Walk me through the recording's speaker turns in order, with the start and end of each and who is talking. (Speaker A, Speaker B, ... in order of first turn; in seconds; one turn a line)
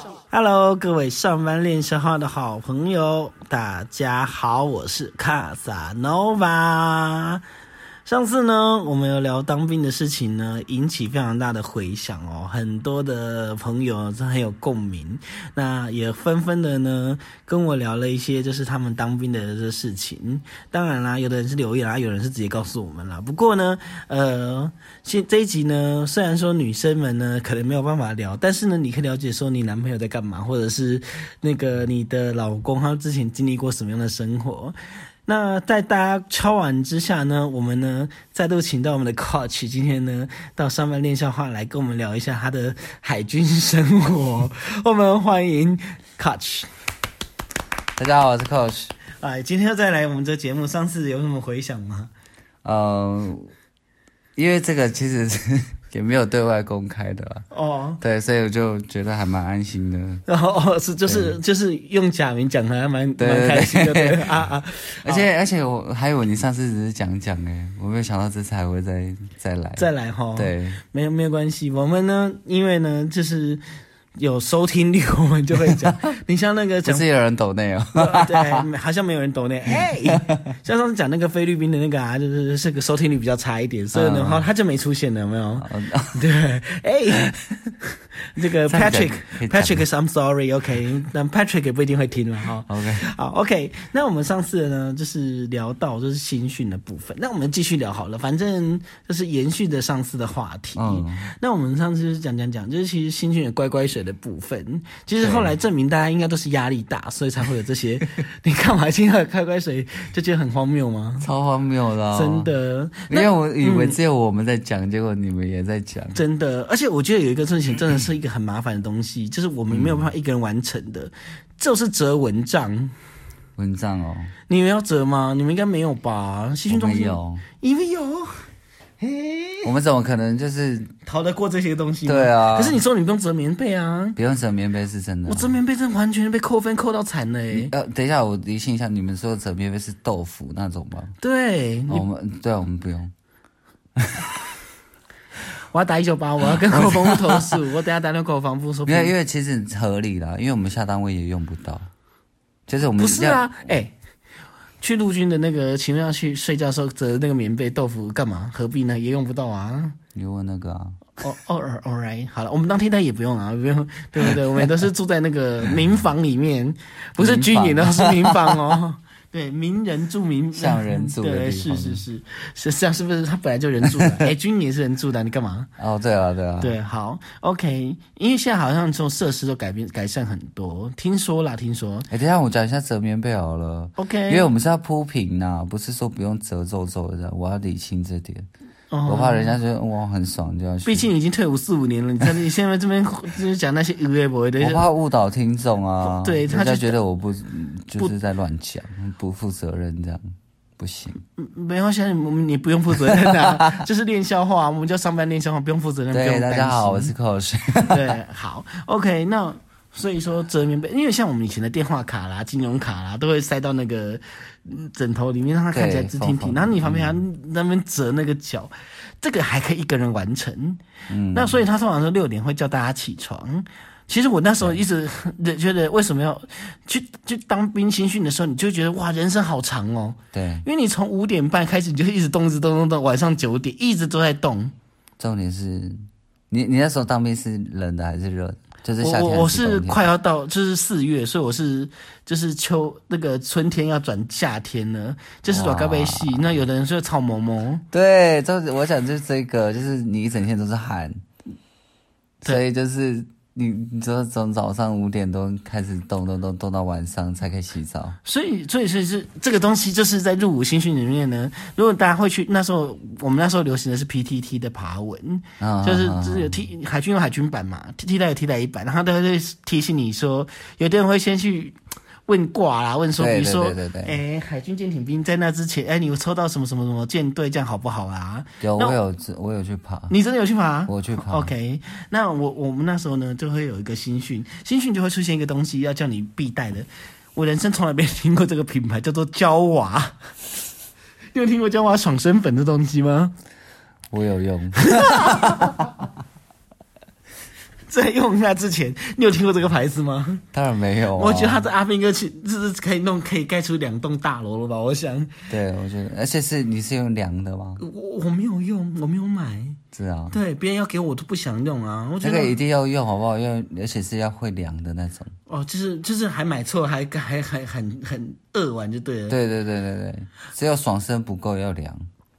Speaker A: 0.3-7.4
Speaker A: 8.1-46.7
Speaker B: 48.0-48.9
Speaker A: 49.2-52.1
Speaker B: 52.6-53.5
Speaker B: 54.4-57.5
Speaker A: 57.5-58.0
Speaker B: 58.0-60.2
Speaker A: 60.3-65.3
Speaker B: 61.1-61.4
Speaker B: 63.2-64.3
Speaker B: 65.0-70.8
Speaker A: 69.8-73.6
Speaker A: 74.2-77.0
Speaker B: 76.8-78.7
Speaker A: 78.0-111.3
Speaker B: 83.9-84.5
Speaker B: 85.6-86.2
Speaker B: 88.7-89.8
Speaker B: 92.7-93.1
Speaker B: 100.8-101.3
Speaker B: 105.2-105.5
Speaker B: 111.2-112.5
Speaker A: 112.1-114.0
Speaker B: 113.1-116.2
Speaker A: 116.2-122.9
Speaker B: 119.7-120.1
Speaker B: 123.6-124.3
Speaker A: 124.5-128.5
Speaker B: 126.7-127.4
Speaker A: 129.0-129.7
Speaker B: 129.6-130.9
Speaker A: 131.1-134.2
Speaker B: 132.1-132.8
Speaker B: 134.2-135.6
Speaker A: 135.3-137.7
Speaker B: 137.5-141.2
Speaker A: 141.2-142.1
Speaker B: 141.9-143.1
Speaker B: 144.0-144.4
Speaker A: 145.7-149.1
Speaker B: 146.5-147.6
Speaker B: 148.9-151.9
Speaker B: 152.7-153.5
Speaker A: 153.0-153.9
Speaker A: 154.8-160.0
Speaker B: 160.2-161.0
Speaker A: 161.2-175.7
Speaker B: 167.2-168.7
Speaker B: 170.6-172.1
Speaker B: 173.9-174.3
Speaker B: 175.8-176.8
Speaker A: 176.6-182.1
Speaker B: 182.1-188.5
Speaker A: 184.0-184.5
Speaker A: 188.9-189.6
Speaker B: 189.1-191.1
Speaker A: 190.8-194.8
Speaker B: 194.6-201.2
Speaker A: 196.0-196.9
Speaker A: 201.4-207.1
Speaker B: 203.1-203.8
Speaker B: 206.1-208.2
Speaker A: 207.9-220.8
Speaker B: 215.7-217.2
Speaker B: 221.1-221.6
Speaker A: 221.3-234.7
Speaker B: 230.3-230.7
Speaker B: 235.2-240.1
Speaker A: 239.0-247.8
Speaker B: 245.5-246.6
Speaker B: 247.9-251.2
Speaker B: 252.4-258.2
Speaker A: 258.2-279.0
Speaker B: 265.6-266.6
Speaker B: 273.2-274.2
Speaker B: 278.6-280.1
Speaker A: 280.1-290.2
Speaker B: 280.9-281.5
Speaker A: 291.3-293.3
Speaker B: 294.1-295.9
Speaker A: 294.8-295.9
Speaker A: 297.9-300.4
Speaker B: 300.5-301.7
Speaker A: 301.1-305.4
Speaker B: 305.5-307.8
Speaker A: 307.8-309.8
Speaker B: 309.9-310.4
Speaker A: 310.3-312.6
Speaker B: 312.2-315.3
Speaker A: 315.5-319.4
Speaker B: 319.3-322.1